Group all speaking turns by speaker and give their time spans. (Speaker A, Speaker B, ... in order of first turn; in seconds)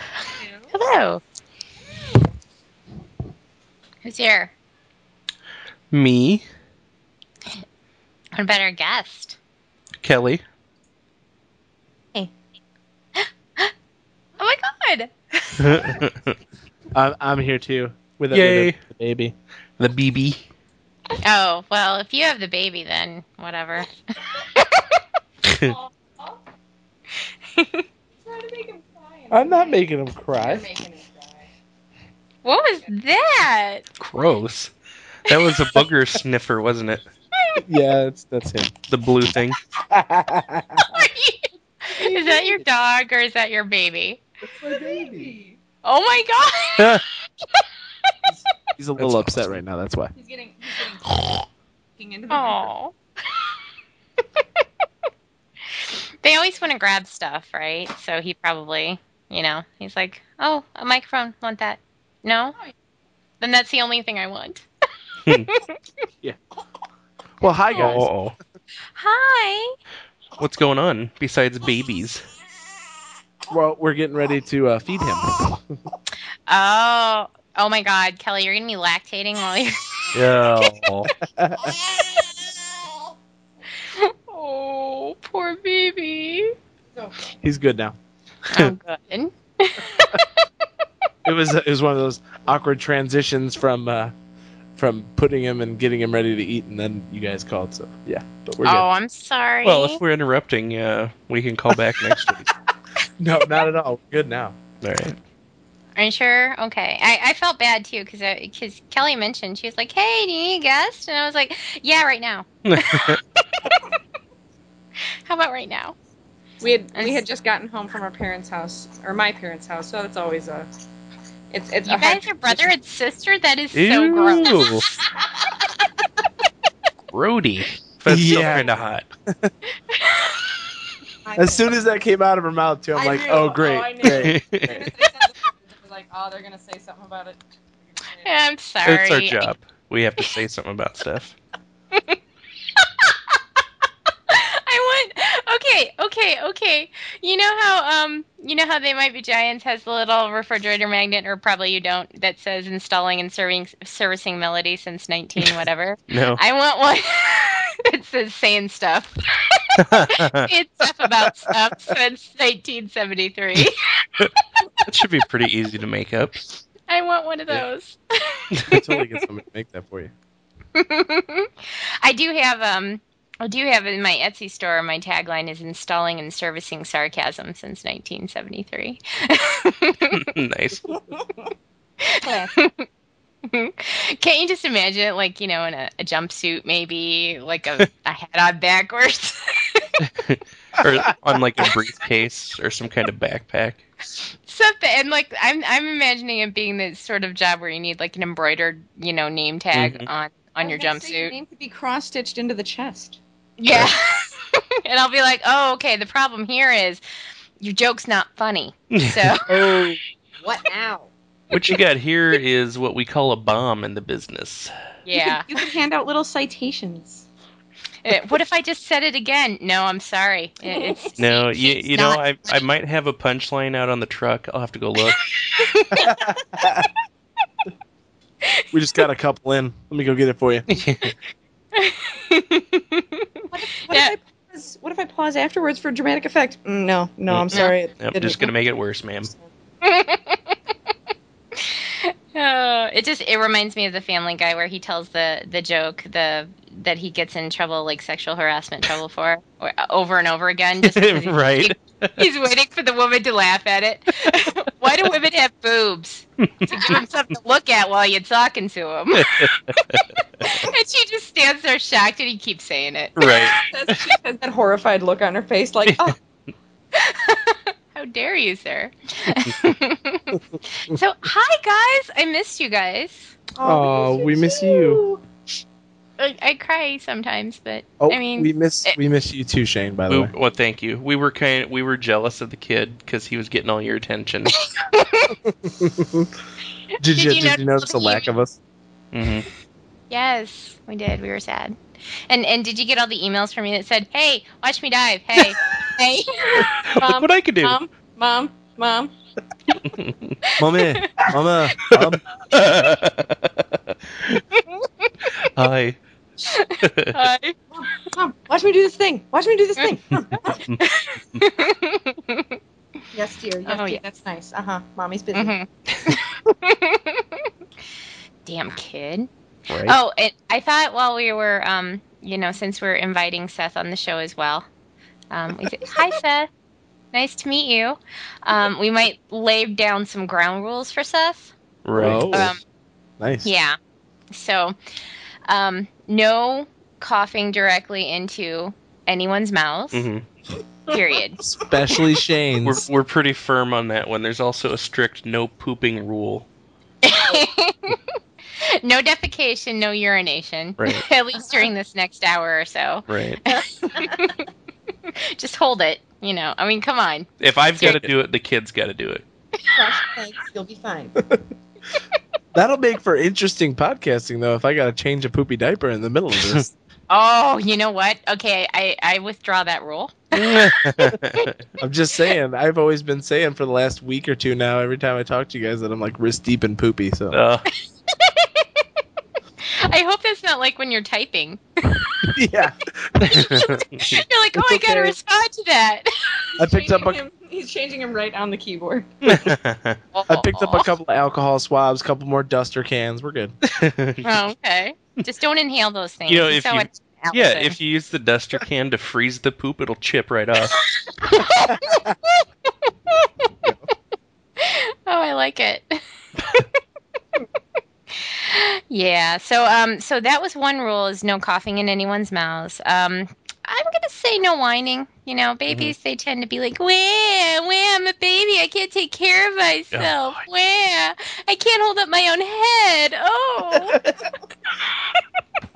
Speaker A: 0.4-0.7, 25.6-26.3, 28.2-31.5, 44.6-45.6, 50.1-51.4, 52.0-52.7, 116.6-120.7, 121.5-122.7, 131.2-131.8, 132.9-138.3, 181.1-181.4, 182.2-182.5, 200.6-203.2, 210.4-211.1, 215.1-217.2, 220.7-221.0, 233.5-238.5, 263.7-266.2, 273.5-275.2, 297.0-299.1, 307.7-310.6, 313.1-315.5, 353.9-354.3, 359.7-361.1, 386.6-389.5
Speaker B: 0.7-1.2, 4.0-4.5, 8.3-9.4, 13.2-13.7, 14.4-16.0, 21.2-25.0, 27.6-27.8, 32.5-33.8, 40.9-44.2, 45.8-47.0, 52.3-52.9, 56.2-62.6, 63.4-64.6, 65.3-65.8, 67.7-68.0, 69.0-69.8, 76.5-80.7, 83.9-86.5, 88.5-90.5, 98.6-100.0, 106.0-113.8, 115.2-116.0, 116.9-117.2, 121.9-125.0, 129.9-130.4, 138.2-139.5, 142.8-143.1, 144.3-163.8, 166.9-168.8, 170.8-180.2, 182.0-182.9, 183.5-190.0, 194.4-201.3, 203.6-207.0, 207.6-209.5, 215.1-215.4, 218.0-222.6, 225.5-226.2, 231.7-234.2, 239.8-240.5, 241.6-263.6, 266.9-273.3, 276.2-279.0, 284.6-285.4, 287.0-288.3, 290.1-291.8, 292.3-296.8, 300.5-301.1, 306.5-307.5, 310.8-312.6, 313.7-314.0, 315.3-317.5, 318.4-319.3, 319.8-324.6, 325.3-326.5, 327.1-331.5, 332.3-332.6, 333.4-333.8, 334.3-334.8, 335.5-340.1, 340.9-341.5, 347.0-354.4, 355.2-357.3, 367.1-371.4, 378.1-378.6, 379.7-382.4, 383.3-386.1, 390.1-390.9, 394.2-397.8, 401.0-403.5, 404.6-406.6, 408.1-424.0
Speaker C: 5.9-6.5, 10.0-10.4, 15.6-16.3, 18.3-18.8, 19.8-20.4, 25.4-25.7, 34.0-34.7, 35.2-37.0, 38.9-39.6, 49.0-49.6, 65.2-65.5, 67.8-68.3, 70.4-72.2, 80.1-81.1, 99.6-102.5, 104.8-105.2, 112.7-113.2, 123.7-124.8, 127.1-129.1, 134.2-134.8, 138.8-141.3, 156.1-156.4, 159.8-160.5, 164.2-166.6, 180.1-180.9, 190.0-193.8, 199.7-200.1, 208.9-210.0, 211.5-214.7, 221.2-225.2, 230.7-231.1, 237.3-239.3, 250.8-252.2, 256.4-256.8, 259.1-260.0, 263.1-264.0, 265.9-266.1, 280.1-284.5, 289.1-289.5, 296.8-297.8, 299.8-300.4, 301.9-304.4, 305.4-306.0, 306.8-307.1, 319.7-320.0, 331.9-332.5, 339.9-340.2, 342.6-346.5, 350.8-351.0, 353.1-353.4, 357.4-359.2, 370.3-371.5, 377.3-377.6, 383.3-384.2, 389.2-390.0, 393.6-394.2, 396.3-400.8, 415.7-415.9, 419.9-420.4
Speaker D: 16.9-19.3, 29.3-30.7, 37.6-38.7, 39.9-41.1, 41.9-42.6, 44.5-45.3, 48.8-50.1, 67.4-68.1, 73.5-75.6, 81.2-81.8, 87.4-88.0, 91.2-94.1, 94.8-98.9, 101.7-102.3, 103.2-104.6, 128.1-129.5, 131.4-134.9, 168.7-170.1, 225.9-226.9, 228.7-230.7, 273.6-275.0, 278.0-280.3, 285.6-286.3, 287.0-288.6, 300.6-302.2, 332.0-332.5, 333.2-333.5, 341.4-342.9, 357.8-358.1, 362.5-366.7, 371.8-377.4, 382.2-383.6, 384.5-385.2, 386.6-387.2, 390.3-393.5, 401.5-402.1